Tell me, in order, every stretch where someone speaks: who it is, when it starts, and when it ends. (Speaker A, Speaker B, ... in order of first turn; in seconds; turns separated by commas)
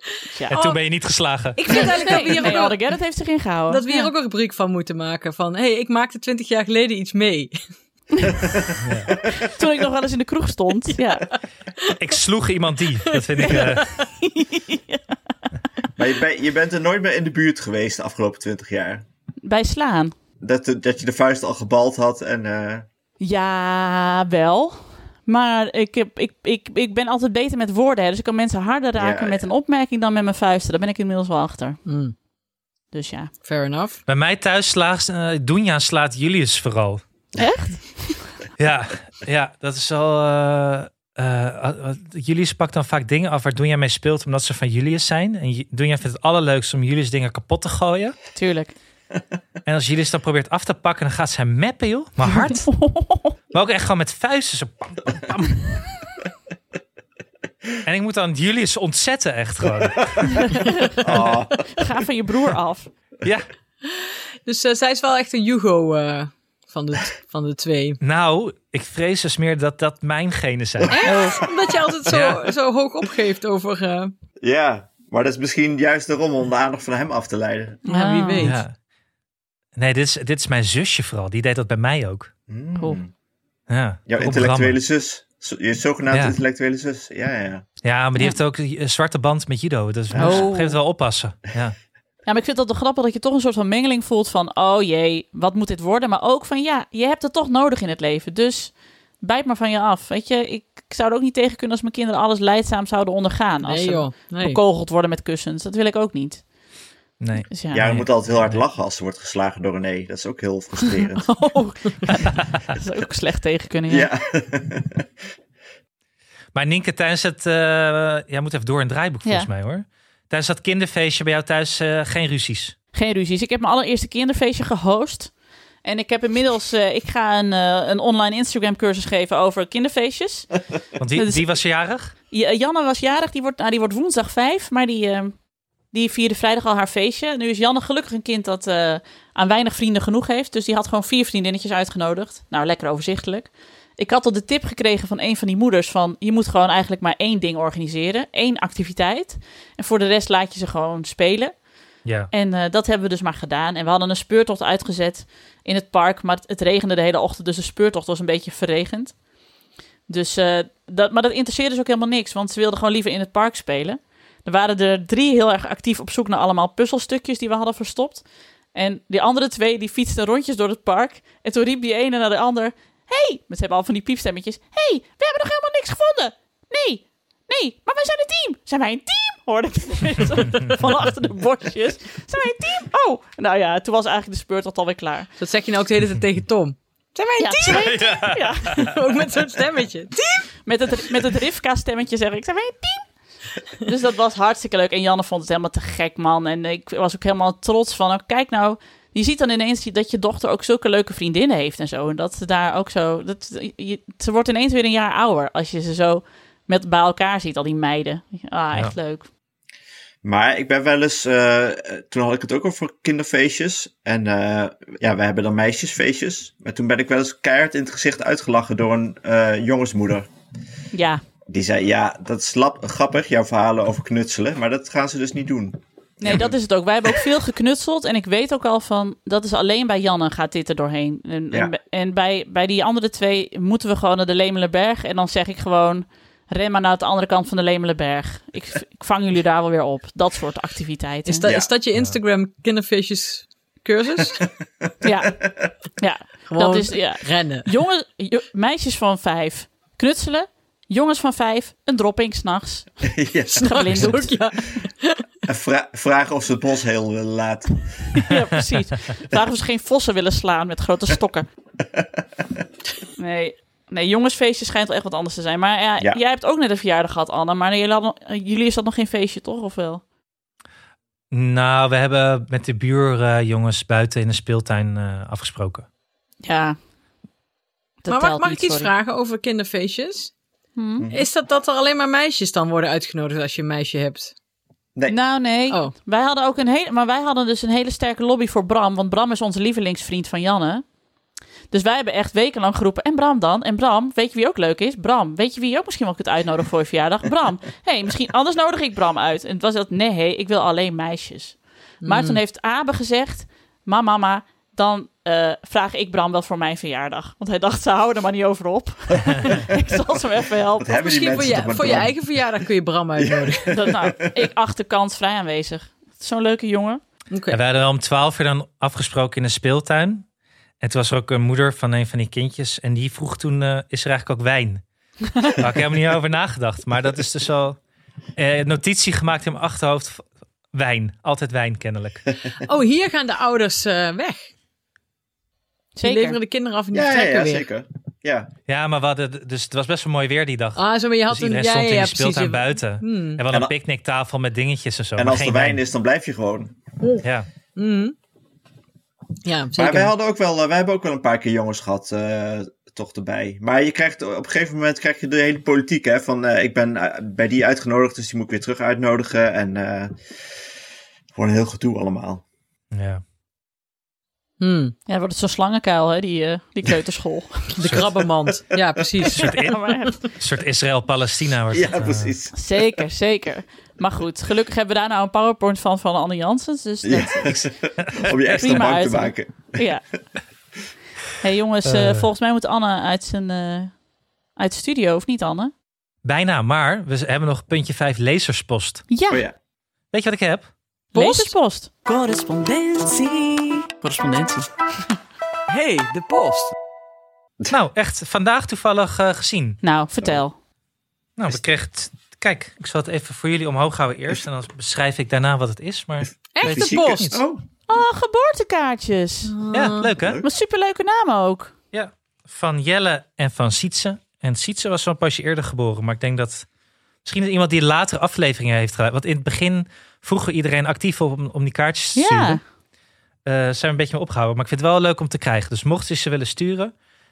Speaker A: 0.3-0.7, Speaker B: 0.5-0.8, Speaker C: 0.5-2.5, Speaker A: 1.6-4.1, Speaker B: 1.6-2.8, Speaker B: 3.7-7.5, Speaker C: 8.8-9.1, Speaker A: 9.4-11.3, Speaker C: 11.9-14.0, Speaker B: 13.4-13.6, Speaker A: 14.2-15.0, Speaker D: 16.0-19.0, Speaker A: 19.4-20.1, Speaker D: 20.4-22.9, Speaker A: 23.2-31.8, Speaker D: 29.0-29.5, Speaker B: 31.9-32.1, Speaker A: 32.9-33.3, Speaker B: 33.4-34.0, Speaker C: 34.1-37.0, Speaker A: 37.4-38.3, Speaker C: 38.6-48.2, Speaker A: 48.3-48.7, Speaker C: 49.6-52.7, Speaker A: 52.6-53.3, Speaker C: 53.5-55.9, Speaker C: 57.8-60.4, Speaker A: 60.3-61.0, Speaker D: 61.0-61.7, Speaker C: 61.1-61.4, Speaker A: 61.7-62.9, Speaker B: 63.8-68.0, Speaker C: 68.0-71.4, Speaker B: 70.9-74.1, Speaker A: 71.1-71.3, Speaker C: 72.0-72.5, Speaker D: 74.4-77.8, Speaker A: 77.8-78.5, Speaker B: 77.8-78.6, Speaker C: 78.4-78.7, Speaker C: 79.8-82.3, Speaker D: 82.5-83.1, Speaker C: 83.7-84.8, Speaker D: 84.1-87.6, Speaker C: 87.8-91.8, Speaker D: 90.1-90.5, Speaker A: 90.2-90.8, Speaker A: 92.2-106.4, Speaker B: 103.6-104.6, Speaker C: 107.2-108.6, Speaker A: 107.5-107.9, Speaker D: 107.7-111.6, Speaker A: 111.2-114.1, Speaker D: 113.9-115.1, Speaker C: 116.5-122.8, Speaker A: 122.9-130.5, Speaker C: 131.0-132.1, Speaker A: 131.2-131.6, Speaker A: 132.3-135.4, Speaker A: 135.9-151.6, Speaker C: 152.0-152.3, Speaker A: 152.3-159.2, Speaker A: 160.1-185.3, Speaker B: 185.4-190.5, Speaker A: 187.4-188.9, Speaker C: 187.7-188.9, Speaker A: 190.6-193.1, Speaker A: 193.8-209.3, Speaker D: 210.2-220.3, Speaker A: 220.9-221.2, Speaker D: 221.5-226.5, Speaker A: 226.2-241.5, Speaker B: 241.2-244.4, Speaker D: 241.4-241.7, Speaker A: 245.0-245.4, Speaker D: 245.4-245.7, Speaker A: 245.9-254.3, Speaker B: 246.5-247.7, Speaker D: 253.1-254.1, Speaker B: 253.6-255.2, Speaker D: 255.4-258.1, Speaker A: 258.1-261.4, Speaker A: 263.2-270.0, Speaker C: 271.3-275.9, Speaker A: 276.4-276.8, Speaker A: 278.0-278.9, Speaker B: 278.1-280.3, Speaker A: 280.8-281.1, Speaker D: 281.0-281.3, Speaker B: 281.1-284.3, Speaker A: 285.1-290.8, Speaker A: 291.7-311.2, Speaker B: 302.0-302.4, Speaker D: 310.8-312.6, Speaker B: 310.9-313.8, Speaker D: 313.1-314.2, Speaker A: 313.7-317.0, Speaker B: 317.3-317.6, Speaker C: 317.5-320.2, Speaker C: 320.8-324.8, Speaker C: 325.4-327.8, Speaker C: 328.4-332.4, Speaker B: 332.6-334.5, Speaker A: 335.9-336.4, Speaker B: 336.0-337.6, Speaker D: 336.9-338.5, Speaker C: 338.7-345.8, Speaker B: 340.8-343.4, Speaker D: 345.1-346.7, Speaker C: 347.2-347.5, Speaker B: 347.8-348.1, Speaker B: 349.4-350.1, Speaker D: 349.7-360.2, Speaker D: 361.3-362.4, Speaker C: 362.9-363.2, Speaker B: 364.6-364.9, Speaker A: 365.1-367.8, Speaker B: 367.8-369.5, Speaker C: 367.8-368.1, Speaker A: 369.2-370.2, Speaker C: 369.3-372.3, Speaker D: 371.7-372.9, Speaker A: 372.5-377.6, Speaker D: 377.0-379.8, Speaker A: 378.1-380.0, Speaker A: 381.4-384.0, Speaker C: 381.8-382.2, Speaker A: 384.6-385.7, Speaker C: 386.2-389.0, Speaker A: 389.1-389.4, Speaker D: 389.3-389.5, Speaker C: 390.1-390.7, Speaker A: 391.1-391.9, Speaker B: 391.1-391.5, Speaker E: 392.0-394.7, Speaker E: 395.7-396.7, Speaker C: 397.7-399.8, Speaker A: 399.8-400.6, Speaker C: 401.4-407.2, Speaker D: 406.2-407.6, Speaker B: 406.5-407.4, Speaker A: 407.9-409.5, Speaker B: 409.4-410.1, Speaker C: 409.7-410.4, Speaker D: 410.2-410.4, Speaker A: 410.4-411.7, Speaker C: 411.9-416.7, Speaker C: 417.2-422.6, Speaker A: 422.1-422.6, Speaker C: 423.4-426.9